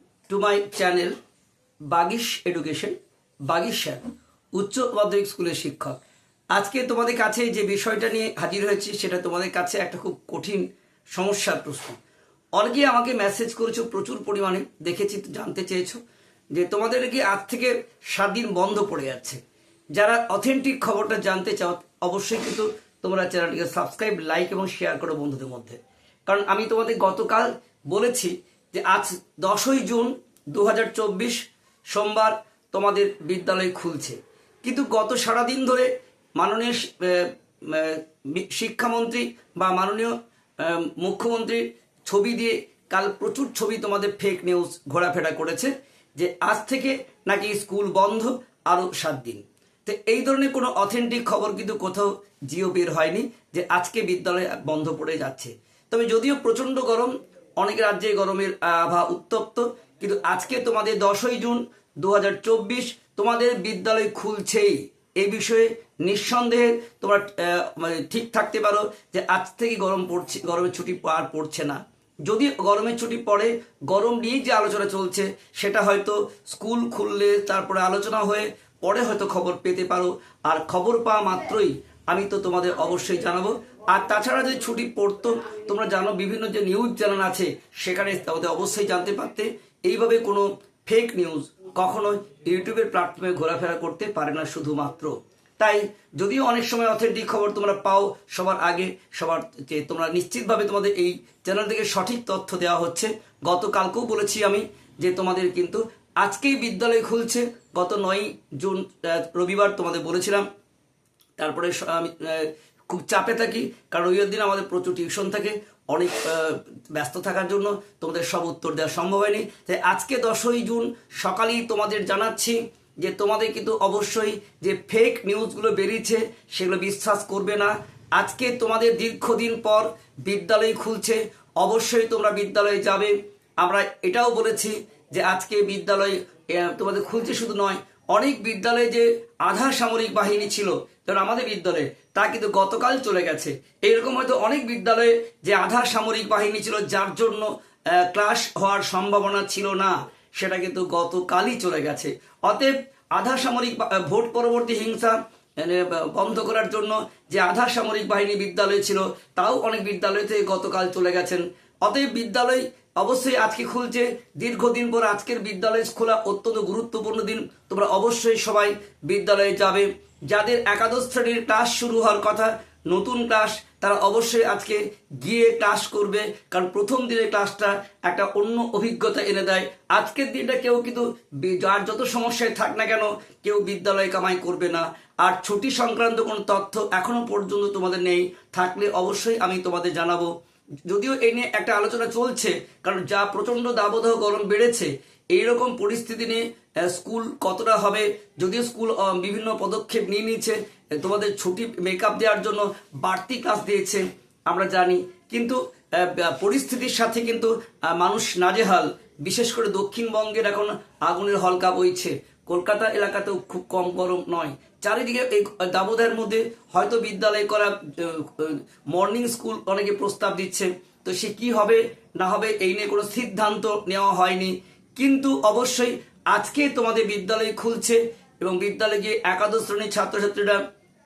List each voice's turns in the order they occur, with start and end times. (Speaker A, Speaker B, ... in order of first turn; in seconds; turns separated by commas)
Speaker A: 0.3-1.1, Speaker A: 1.9-3.0, Speaker A: 3.5-6.0, Speaker A: 6.5-12.0, Speaker A: 12.6-16.0, Speaker A: 16.5-19.4, Speaker A: 20.0-31.4, Speaker A: 31.9-110.5, Speaker A: 111.4-190.3, Speaker A: 190.9-230.6